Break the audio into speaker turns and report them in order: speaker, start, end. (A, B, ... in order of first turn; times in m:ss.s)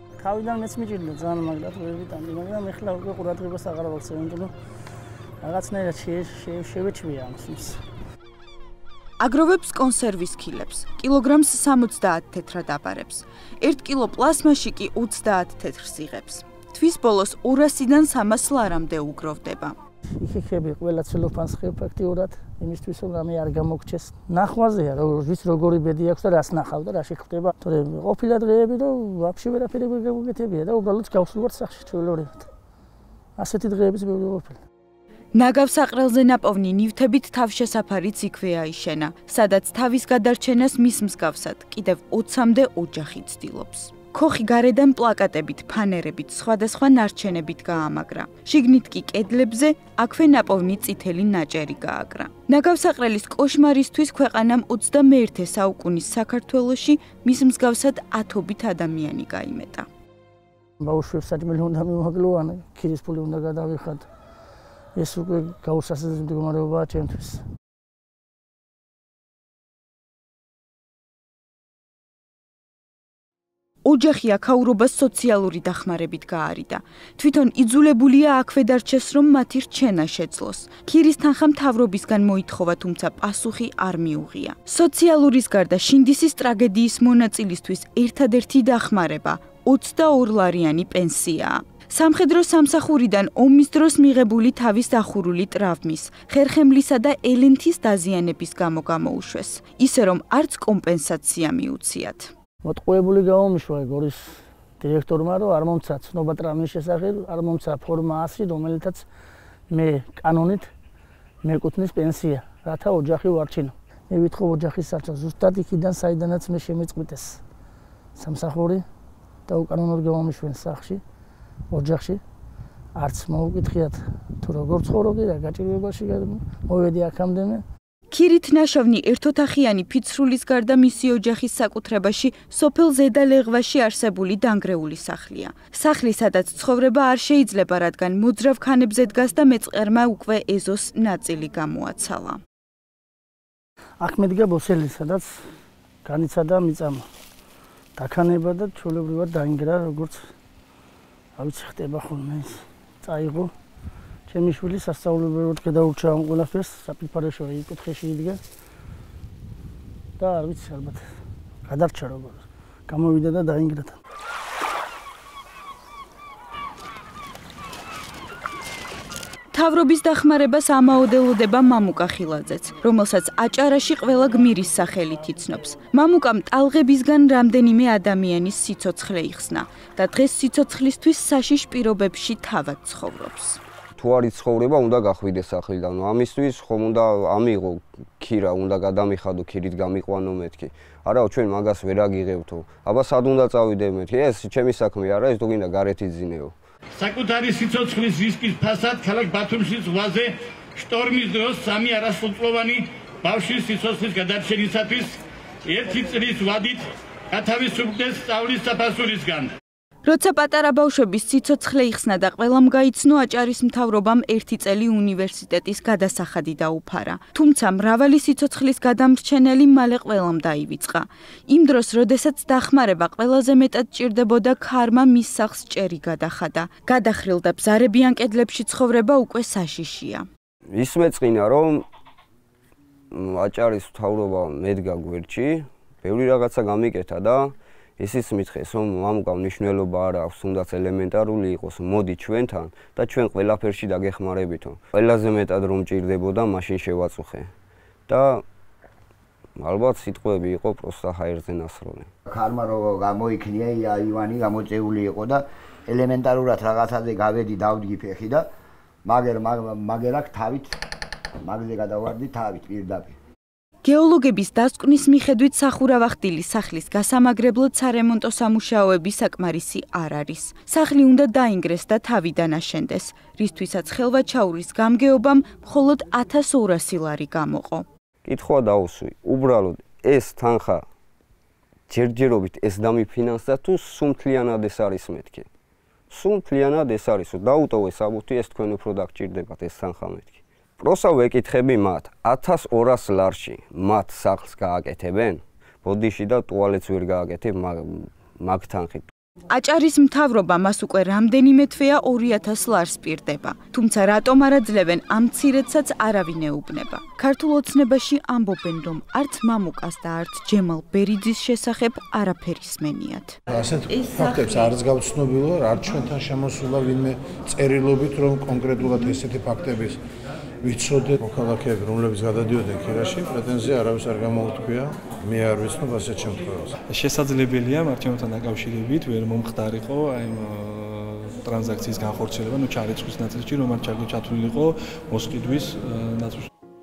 0:00.2-0:04.5 A
0:05.4-0:07.8 A
0:09.2-0:19.8 B
0:20.2-0:32.5 A
0:33.4-0:34.6 A
0:35.3-0:59.9 B
1:00.8-1:04.1 A
1:05.0-1:07.4 A
1:13.8-1:42.3 B
1:42.6-1:49.1 A
1:49.7-1:50.7 A
1:51.4-1:57.4 A
1:58.2-1:58.8 A
1:59.5-2:01.0 A
2:01.7-2:02.2 A
2:03.0-2:07.6 A
2:08.1-2:22.4 B
2:24.0-2:25.4 A
2:26.0-2:27.1 A
2:28.0-2:30.3 A
2:31.4-2:33.5 A
2:34.3-2:38.4 A
2:40.2-2:41.0 A
2:41.7-2:44.0 A
2:49.5-3:03.6 B
3:04.0-3:16.6 C
3:17.0-3:29.5 D
3:30.0-3:50.3 B
3:50.7-3:51.9 C
3:53.1-4:07.5 C
4:08.1-4:08.4 C
4:09.6-4:12.1 C
4:12.3-4:18.5 E
4:19.0-4:20.8 E
4:21.4-4:23.2 E
4:23.8-4:37.9 B
4:38.2-4:40.8 C
4:41.9-4:45.5 C
4:46.1-4:59.1 C
4:59.5-5:13.4 B
5:13.5-5:20.0 F
5:13.9-5:14.8 B
5:20.6-5:26.7 F
5:26.9-5:36.5 G